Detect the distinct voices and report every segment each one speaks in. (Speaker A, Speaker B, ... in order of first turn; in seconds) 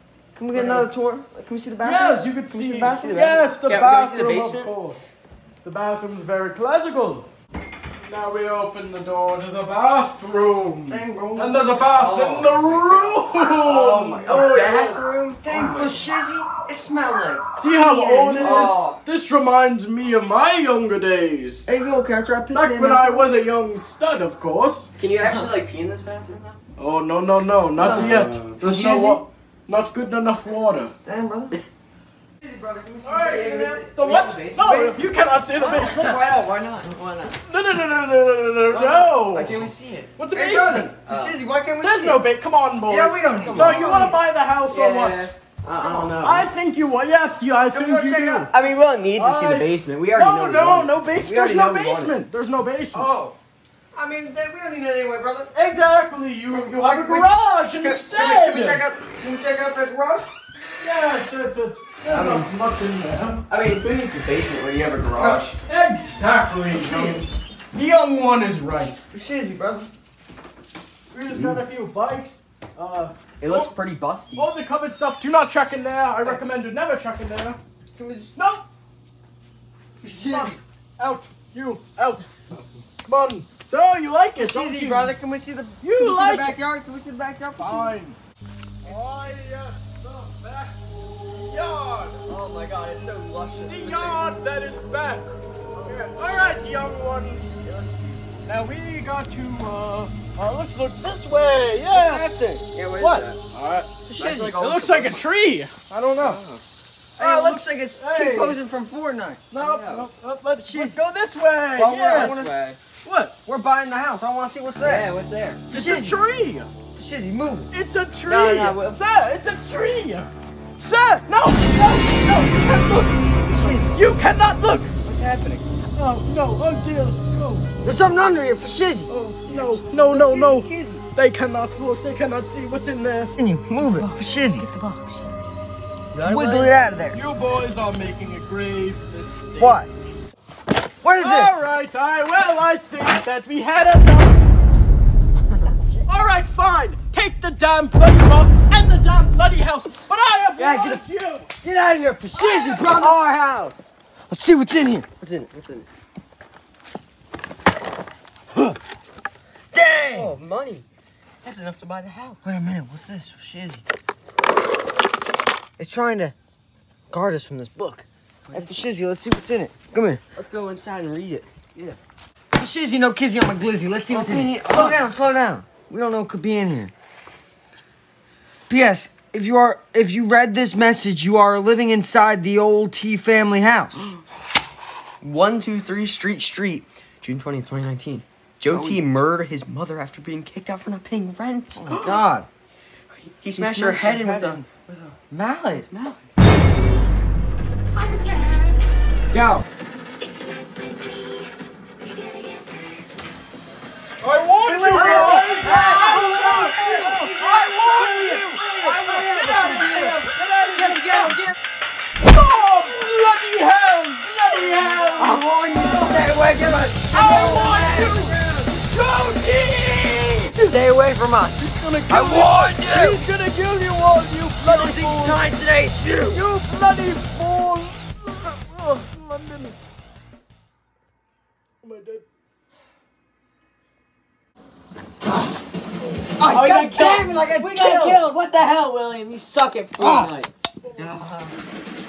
Speaker A: 0.4-3.5, 10.9-11.7, 15.4-18.8, 21.7-23.3, 25.2-25.5, 27.8-29.2, 31.0-31.6, 32.4-33.9, 40.3-42.2, 42.9-44.1, 45.8-46.2, 47.7-48.5, 52.9-53.4, 53.9-55.5, 56.5-60.3, 65.2-65.5, 66.7-67.2, 69.1-69.9, 78.0-78.3, 80.0-80.6, 84.4-88.0, 95.7-96.7, 102.0-102.5, 104.1-104.7, 107.2-109.4, 110.6-111.0, 111.8-112.6, 113.5-115.1, 115.7-116.2, 117.0-117.7, 123.5-123.9, 127.8-129.1, 130.1-130.5, 133.4-134.7, 136.2-137.2, 139.6-139.9, 141.0-141.6, 150.6-151.0, 151.6-153.2, 154.3-155.1, 159.7-160.4, 162.4-163.8, 165.8-166.3, 167.1-170.2, 172.6-176.9, 178.7-184.2, 188.7-189.0, 191.8-192.5, 193.5-194.7, 195.3-195.9, 204.6-211.6, 215.2-218.8, 220.5-223.2, 224.6-226.4, 236.4-238.2, 240.0-240.3
Speaker B: 0.5-0.9, 1.8-7.3, 8.0-15.0, 17.6-21.7, 22.5-24.9, 26.8-30.9, 33.0-36.1, 37.4-41.0, 41.8-45.3, 46.2-48.5, 49.2-53.1, 55.5-58.8, 60.8-63.4, 65.7-69.0, 71.1-73.7, 74.4-77.6, 78.3-78.7, 80.3-82.3, 83.1-85.2, 85.8-86.6, 87.6-88.2, 88.8-92.2, 93.7-95.3, 96.2-97.5, 98.4-102.3, 103.0-103.9, 104.6-106.4, 107.2-108.6, 109.5-112.3, 113.0-113.4, 115.7-116.7, 117.7-123.2, 123.9-124.9, 125.9-127.7, 129.1-133.3, 137.1-139.8, 141.2-144.5, 146.0-151.5, 152.3-152.9, 204.2-211.4, 212.2-216.3, 217.1-220.7, 221.6-225.4, 226.3-229.8, 231.8-232.2, 240.8-241.3
Speaker C: 3.7-4.7, 11.9-16.1, 18.4-19.0, 25.0-26.6, 27.8-28.6, 33.4-37.4, 38.7-40.1, 41.1-41.4, 43.5-44.2, 44.7-46.5, 48.5-52.2, 62.1-62.5, 63.5-65.6, 71.3-71.6, 73.4-74.5, 92.3-94.2, 97.6-98.4, 102.0-103.4, 104.2-105.2, 106.2-106.6, 109.6-110.1, 112.0-112.8, 114.8-115.7, 118.3-119.0, 125.0-125.7, 129.5-131.0, 133.8-135.3, 136.1-136.9, 152.9-153.9, 155.2-155.9, 160.1-160.8, 161.4-162.4, 168.4-168.9, 170.3-172.0, 174.1-175.1, 184.0-184.2, 185.2-192.2, 193.2-195.2, 195.8-196.2, 199.3-199.7, 236.4-241.5